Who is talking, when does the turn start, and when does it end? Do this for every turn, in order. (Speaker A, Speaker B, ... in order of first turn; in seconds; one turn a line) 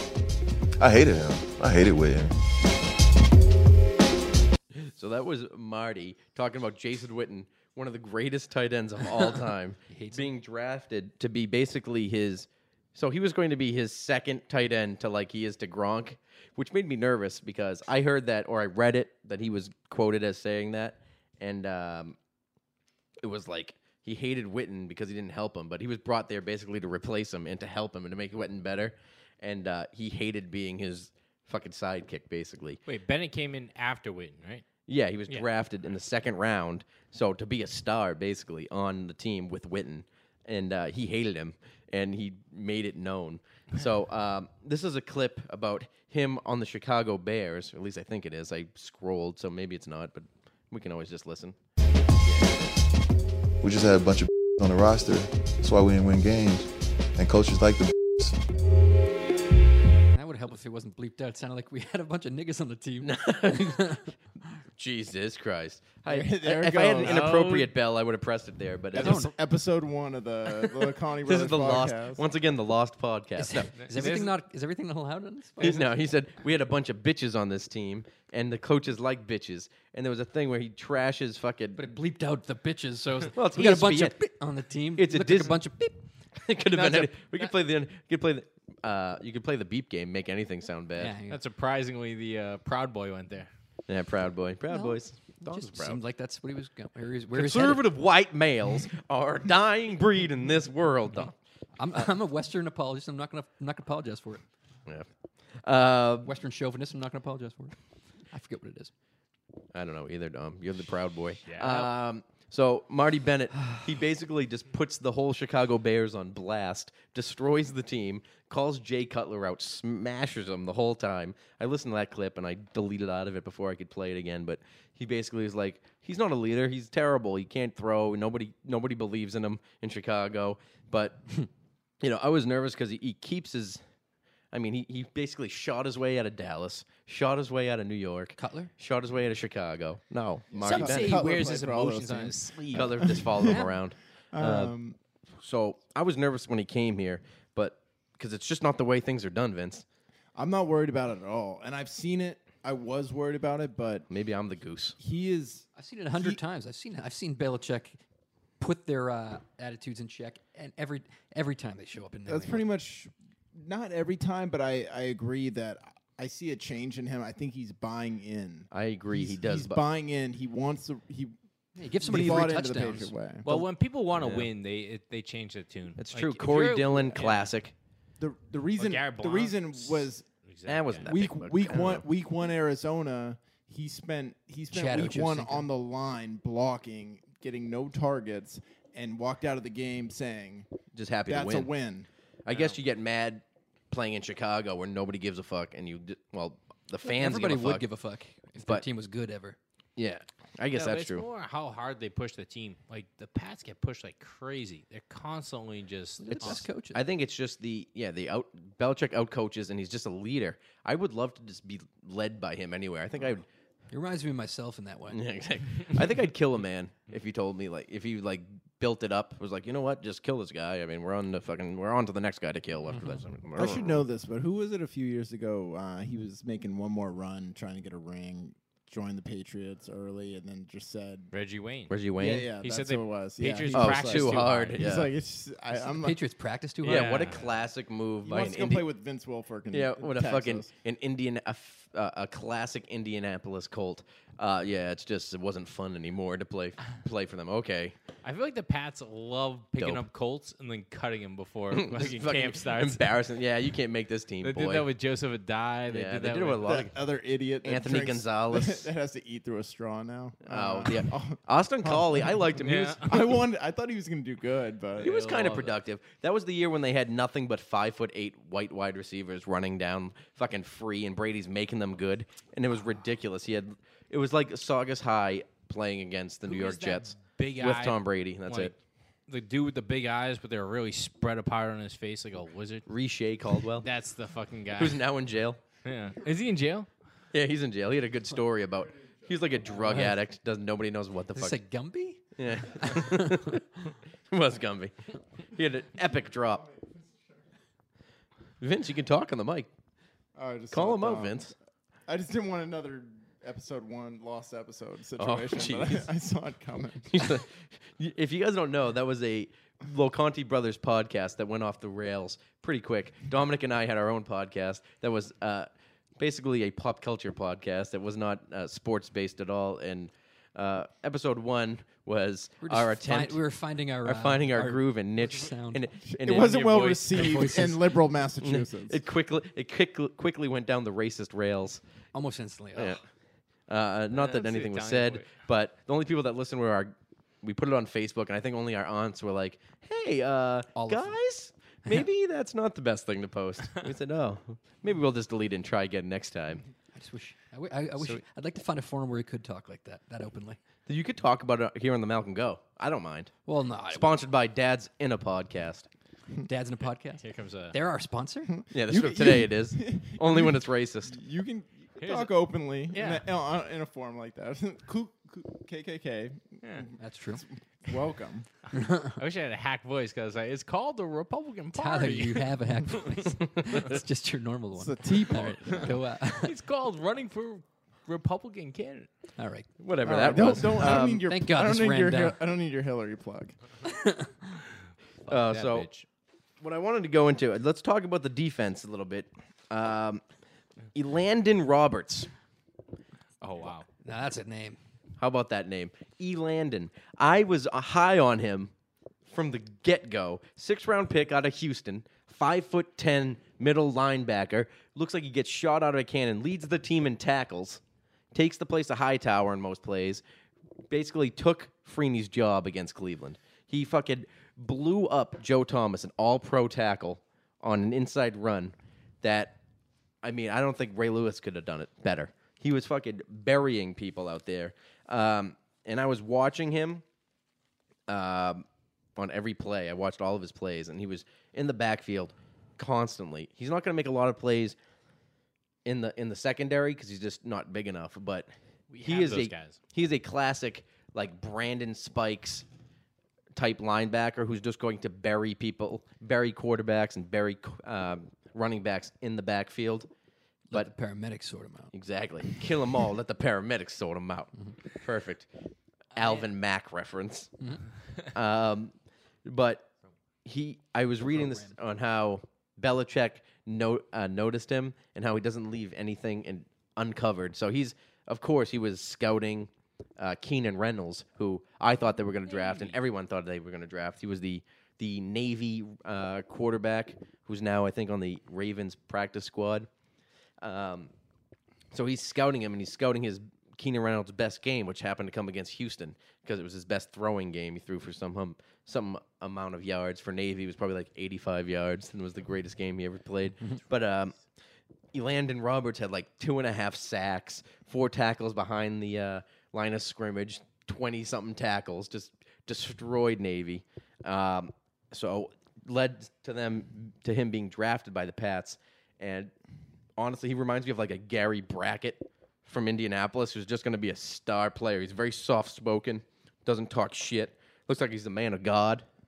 Speaker A: 0.8-2.3
Speaker B: 4.7-22.1
Speaker C: 9.9-10.3
Speaker B: 23.2-32.8
Speaker D: 32.9-34.6
Speaker B: 34.9-51.5
Speaker B: 52.2-52.8
Speaker A: 53.6-58.3
Speaker C: 60.1-64.1
Speaker B: 63.0-63.9
Speaker B: 64.8-69.3
Speaker E: 66.1-67.3
Speaker D: 67.0-67.7
Speaker E: 69.0-72.2
Speaker C: 69.0-69.3
Speaker B: 70.5-74.1
Speaker C: 73.4-75.8
Speaker D: 73.8-74.3
Speaker B: 75.6-81.9
Speaker C: 81.8-86.0
Speaker B: 83.3-84.2
Speaker B: 85.0-85.8
Speaker B: 86.4-91.1
Speaker C: 91.0-91.4
Speaker D: 91.3-93.5
Speaker B: 93.9-96.0
Speaker C: 94.7-97.8
Speaker B: 97.3-101.3
Speaker C: 101.8-104.4
Speaker B: 105.6-106.3
Speaker C: 106.2-107.7
Speaker C: 108.3-108.9
Speaker B: 109.7-131.2
Speaker D: 111.5-111.9
Speaker B: 132.0-133.8
Speaker B: 134.5-141.2
Speaker C: 138.4-138.7
Speaker E: 140.6-143.7
Speaker D: 140.6-143.2
Speaker B: 142.7-144.7
Speaker E: 144.3-145.0
Speaker B: 145.4-149.8
Speaker E: 150.3-154.1
Speaker B: 154.1-155.0
Speaker E: 155.0-156.4
Speaker C: 155.7-158.0
Speaker C: 158.6-162.7
Speaker E: 162.3-171.3
Speaker B: 168.7-169.8
Speaker C: 171.8-173.1
Speaker E: 172.0-173.5
Speaker B: 172.1-172.5
Speaker D: 173.4-177.4
Speaker B: 173.5-174.5
Speaker B: 176.0-177.7
Speaker E: 178.2-180.2
Speaker D: 178.8-181.1
Speaker B: 180.7-182.0
Speaker E: 181.0-190.7
Speaker C: 184.7-185.7
Speaker B: 190.9-191.7
Speaker E: 191.2-192.1
Speaker B: 192.4-197.9
Speaker D: 192.5-192.8
Speaker C: 197.0-199.6
Speaker B: 200.0-201.2
Speaker D: 200.7-206.6
Speaker C: 206.2-207.0
Speaker B: 206.3-213.4
Speaker C: 213.9-215.2
Speaker B: 215.1-224.0
Speaker E: 223.6-231.3
Speaker D: 231.3-234.8
Speaker B: 231.9-232.5
Speaker E: 232.2-236.2
Speaker B: 233.7-235.1
Speaker C: 235.7-237.3
Speaker D: 236.8-237.5
Speaker B: 236.8-238.9
Speaker E: 238.2-240.7
Speaker B: 239.7-247.9
Speaker D: 248.2-253.0
Speaker B: 249.8-250.0
Speaker B: 251.7-254.9
Speaker D: 254.4-256.8
Speaker B: 255.9-256.9
Speaker E: 256.6-265.2
Speaker B: 257.6-258.9
Speaker B: 260.4-263.1
Speaker D: 262.6-263.0
Speaker B: 265.0-278.7
Speaker D: 265.0-265.8
Speaker D: 276.4-278.7
Speaker D: 279.3-282.8
Speaker B: 282.9-283.9
Speaker D: 283.8-285.1
Speaker B: 284.7-285.6
Speaker D: 285.8-286.9
Speaker B: 287.3-291.6
Speaker E: 288.9-289.6
Speaker C: 289.8-290.2
Speaker C: 291.4-293.5
Speaker B: 292.4-293.6
Speaker B: 294.3-294.9
Speaker B: 295.5-296.6
Speaker E: 296.5-297.4
Speaker B: 298.6-299.7
Speaker E: 300.4-301.5
Speaker B: 300.7-301.5
Speaker E: 302.1-307.3
Speaker B: 305.2-306.1
Speaker B: 307.1-323.5
Speaker C: 322.6-325.8
Speaker B: 324.0-327.1
Speaker E: 326.1-329.0
Speaker D: 326.4-327.4
Speaker C: 327.1-327.8
Speaker B: 328.4-331.8
Speaker C: 332.1-333.0
Speaker B: 333.7-346.6
Speaker D: 334.1-335.3
Speaker C: 340.7-341.1
Speaker C: 346.9-350.6
Speaker B: 350.9-353.4
Speaker C: 353.5-354.1
Speaker B: 353.9-355.9
Speaker C: 356.4-358.5
Speaker D: 357.2-357.8
Speaker E: 358.6-366.6
Speaker B: 358.7-361.1
Speaker D: 362.0-362.3
Speaker D: 362.9-363.2
Speaker D: 366.6-366.9
Speaker C: 367.0-367.4
Speaker E: 367.9-368.5
Speaker C: 368.7-369.1
Speaker D: 369.1-372.5
Speaker C: 371.7-376.5
Speaker E: 374.7-375.9
Speaker D: 376.4-379.1
Speaker C: 379.4-379.7
Speaker B: 379.8-381.2
Speaker E: 380.0-383.5
Speaker C: 381.1-382.4
Speaker C: 383.9-384.3
Speaker B: 385.3-385.9
Speaker D: 385.3-386.1
Speaker B: 386.6-390.2
Speaker B: 390.9-392.3
Speaker D: 393.4-393.9
Speaker C: 394.0-394.8
Speaker B: 395.2-398.7
Speaker B: 399.2-407.8
Speaker B: 408.3-410.2
Speaker B: 410.9-419.6
Speaker B: 420.2-427.0
Speaker B: 428.1-428.6
Speaker B: 429.1-434.8
Speaker B: 435.8-438.5
Speaker D: 438.9-439.8
Speaker B: 439.0-442.6
Speaker B: 443.5-450.1
Speaker C: 450.7-451.9
Speaker B: 451.9-455.5
Speaker B: 456.1-457.5
Speaker D: 456.2-456.4
Speaker B: 458.3-458.9
Speaker B: 459.4-459.9
Speaker B: 460.4-479.9
Speaker C: 461.4-461.7
Speaker D: 472.6-472.9
Speaker B: 480.6-481.1
Speaker B: 481.9-494.4
Speaker B: 495.1-509.5
Speaker B: 510.2-519.0